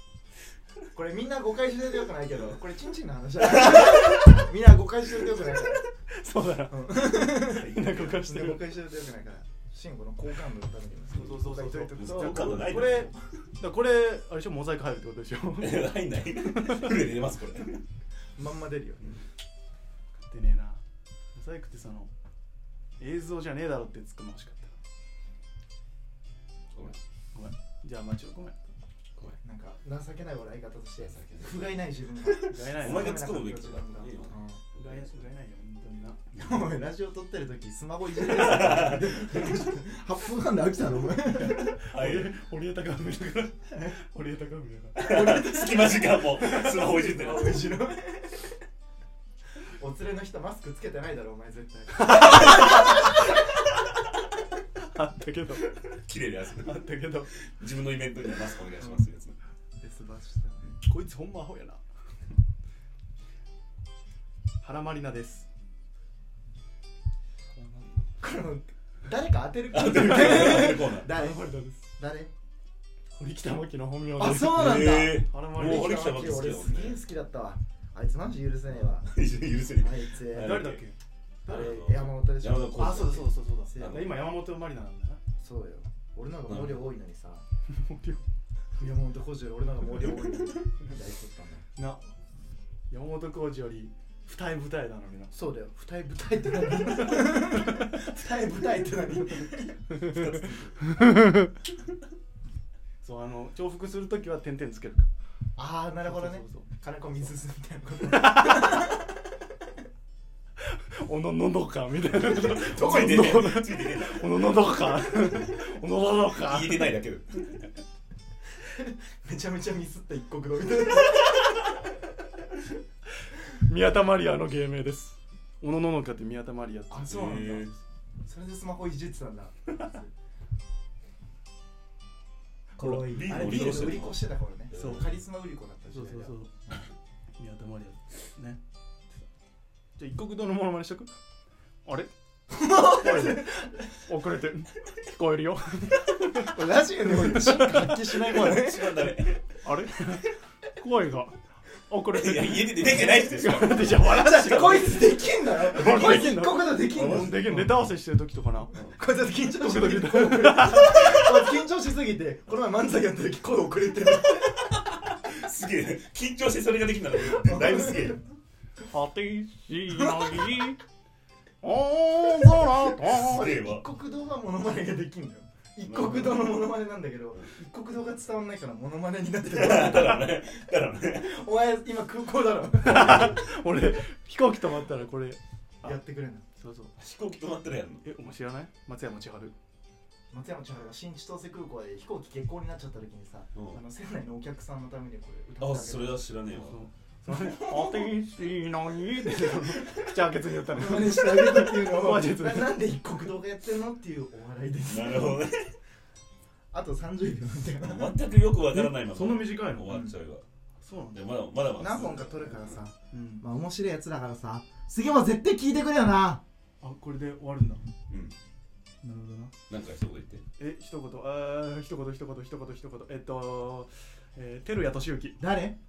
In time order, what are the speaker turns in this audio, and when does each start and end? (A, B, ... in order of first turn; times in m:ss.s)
0:00.9-0:05.8 A
0:05.8-0:08.7 B
0:06.7-0:12.8 A
0:07.5-0:08.2 C
0:11.1-0:17.0 B
0:11.9-0:13.1 C
0:15.6-0:17.8 C
0:18.3-0:19.2 A
0:20.3-0:20.8 B
0:21.3-0:22.1 B
0:23.0-0:24.7 B
0:27.3-0:28.6 B
0:29.4-0:34.6 A
0:31.0-0:35.2 C
0:32.4-0:33.3 B
0:34.8-0:36.2 B
0:36.3-0:41.8 A
0:38.3-0:39.0 C
0:38.4-0:38.8 B
0:41.4-0:46.9 B
0:41.9-0:42.3 C
0:45.0-0:47.6 C
0:45.0-0:46.0 A
0:46.8-0:48.5 A
0:49.8-0:52.9 A
0:51.9-0:53.1 B
0:54.8-0:55.7 B
0:55.8-0:56.9 C
0:56.5-0:57.3 B
0:57.6-0:59.4 C
0:59.8-1:00.7 A
1:00.8-1:01.8 B
1:04.6-1:05.5 B
1:07.6-1:12.3 A
1:09.7-1:11.1 C
1:09.9-1:11.9 B
1:13.2-1:16.3 B
1:14.2-1:19.1 A
1:14.4-1:17.0 C
1:19.0-1:20.8 C
1:19.7-1:20.7 A
1:20.3-1:21.0 B
1:21.4-1:24.2 A
1:21.4-1:24.2 C
1:22.6-1:25.2 B
1:25.4-1:27.4 A
1:26.5-1:26.8 C
1:27.7-1:28.2 B
1:28.8-1:31.6 A
1:31.8-1:32.1 B
1:32.9-1:35.3 B
1:35.3-1:39.8 A
1:39.9-1:41.0 C
1:40.0-1:41.5 B
1:43.0-1:45.1 B
1:45.6-1:49.1 A
1:46.0-1:46.7 B
1:48.1-1:48.9 B
1:50.7-1:57.0 B
1:52.3-1:54.7 C
1:52.6-1:53.2 A
1:56.3-1:57.7 C
1:58.7-2:01.6 A
2:03.6-2:07.1 B
2:06.9-2:07.7 A
2:07.0-2:07.7 C
2:08.2-2:10.1 A
2:12.8-2:14.1 B
2:12.8-2:16.3 A
2:12.9-2:15.1 C
2:14.7-2:15.1 B
2:15.9-2:16.5 B
2:17.4-2:18.6 B
2:20.0-2:21.1 B
2:21.8-2:22.1 B
2:22.5-2:23.8 A
2:22.8-2:28.5 B
2:26.3-2:29.2 A
2:28.3-2:29.6 C
2:29.6-2:38.7 B
2:32.1-2:34.0 C
2:34.0-2:37.5 A
2:35.9-2:36.2 C
2:36.9-2:37.8 C
2:38.7-2:44.7 A
2:39.5-2:41.3 B
2:45.0-2:48.2 C
2:47.4-2:48.2 A
2:48.9-2:50.8 B
2:51.6-2:53.5 B
2:53.0-3:00.4 A
2:53.1-2:53.8 C
2:55.8-2:56.5 C
2:59.5-3:01.3 C
3:01.1-3:03.4 A
3:02.8-3:06.0 B
3:05.8-3:06.4 A
3:06.6-3:06.9 B
3:07.0-3:08.0 C
3:08.0-3:09.5 B
3:10.3-3:16.3 A
3:13.5-3:13.8 C
3:15.6-3:16.8 C
3:16.5-3:23.1 B
3:17.3-3:18.0 C
3:20.7-3:25.5 A
3:24.9-3:25.7 C
3:26.7-3:28.2 A
3:27.8-3:30.4 C
3:28.6-3:30.1 B
3:29.9-3:30.1 A
3:30.8-3:31.3 B
3:31.1-3:32.8 C
3:31.8-3:36.4 A
3:33.1-3:33.4 B
3:36.8-3:37.8 B
3:38.1-3:38.3 C
3:39.0-3:39.5 B
3:39.7-3:40.4 C
3:40.6-3:45.4 B
3:45.4-3:45.8 A